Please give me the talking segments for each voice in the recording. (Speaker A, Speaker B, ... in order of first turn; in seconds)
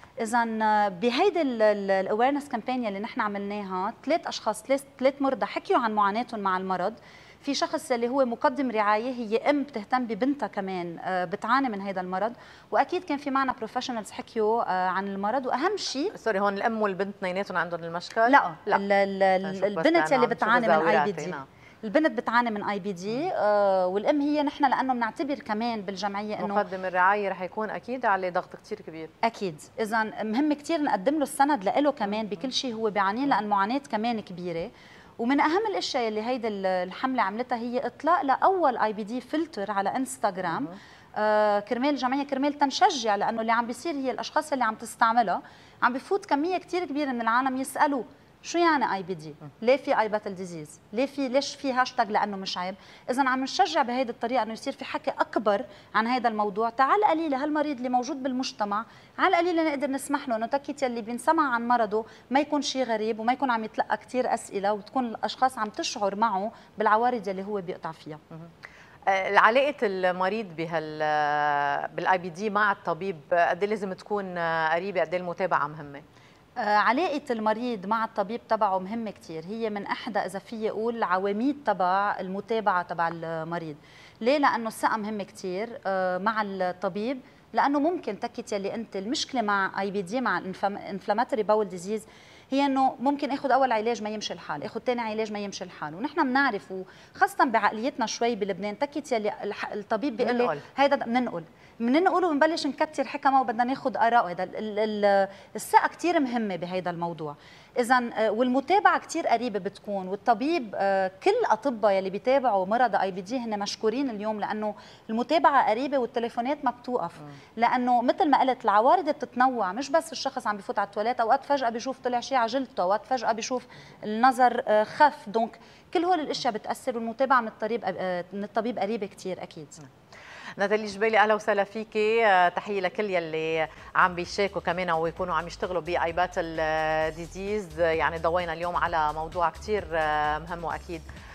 Speaker A: 0.2-16.1, 18.3-26.6, 29.2-68.2, 76.6-129.8
Speaker B: 16.1-18.8, 19.4-21.4, 26.4-29.1, 69.1-76.0, 100.2-100.6, 130.6-141.0